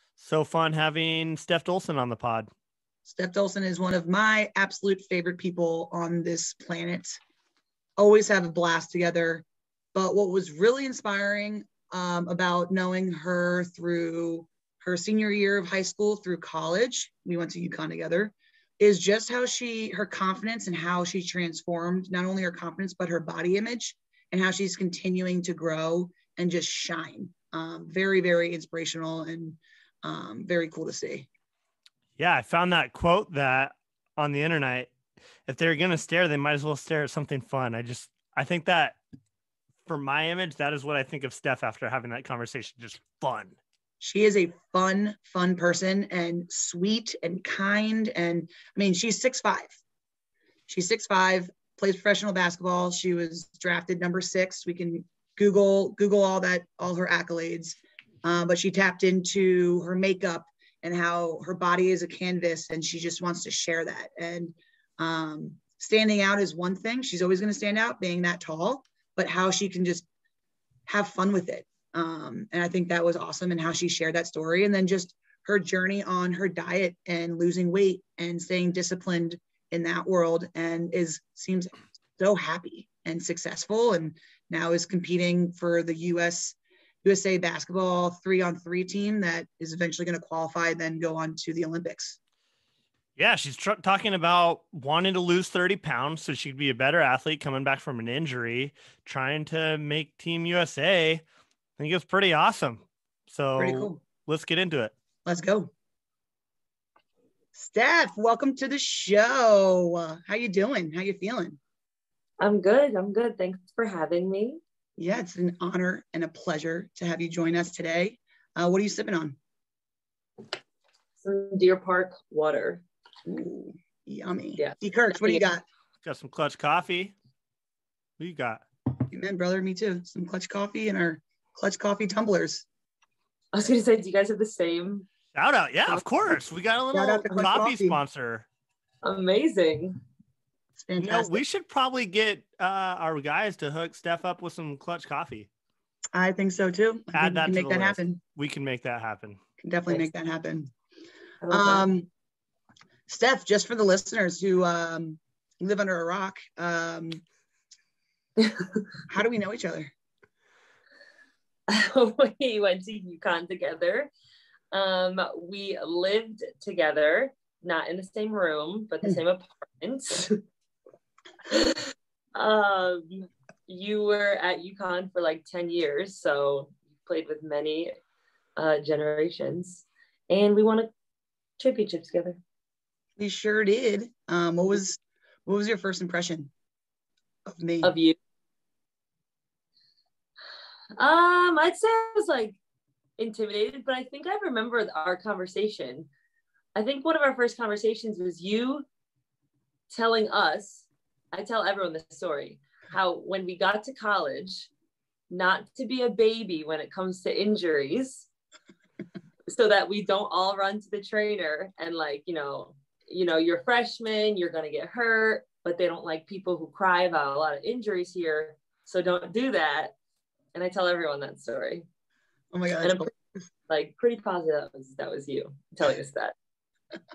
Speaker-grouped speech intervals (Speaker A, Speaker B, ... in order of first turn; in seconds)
Speaker A: 0.2-2.5, 32.2-34.9, 35.5-39.0, 39.9-43.6, 93.2-101.2, 101.8-104.9, 126.0-127.1, 128.2-128.6, 135.3-138.5, 141.0-145.5, 147.1-149.4
Speaker B: 3.0-7.2, 8.0-31.3, 44.0-49.8, 50.7-70.0, 70.9-92.2, 103.6-104.0, 105.2-105.7, 107.5-111.6, 115.0-119.4, 123.2-125.6, 129.1-132.7, 136.9-138.0, 140.8-141.4, 146.1-148.2, 149.6-150.7, 151.5-152.1, 153.1-157.2, 159.1-159.9, 183.2-186.5, 187.4-187.9, 222.5-223.1
Speaker C: 112.4-114.6, 121.2-122.8, 124.6-125.4, 133.5-135.1, 139.0-140.0, 151.4-151.9, 158.4-158.8, 161.7-164.1, 164.7-170.4, 171.4-177.9, 178.6-180.9, 181.6-182.4, 187.8-188.2, 190.9-192.6, 193.2-196.1, 196.7-198.8, 199.9-204.7, 205.3-208.2, 209.5-219.9, 220.5-221.8, 222.8-223.1, 223.7-226.3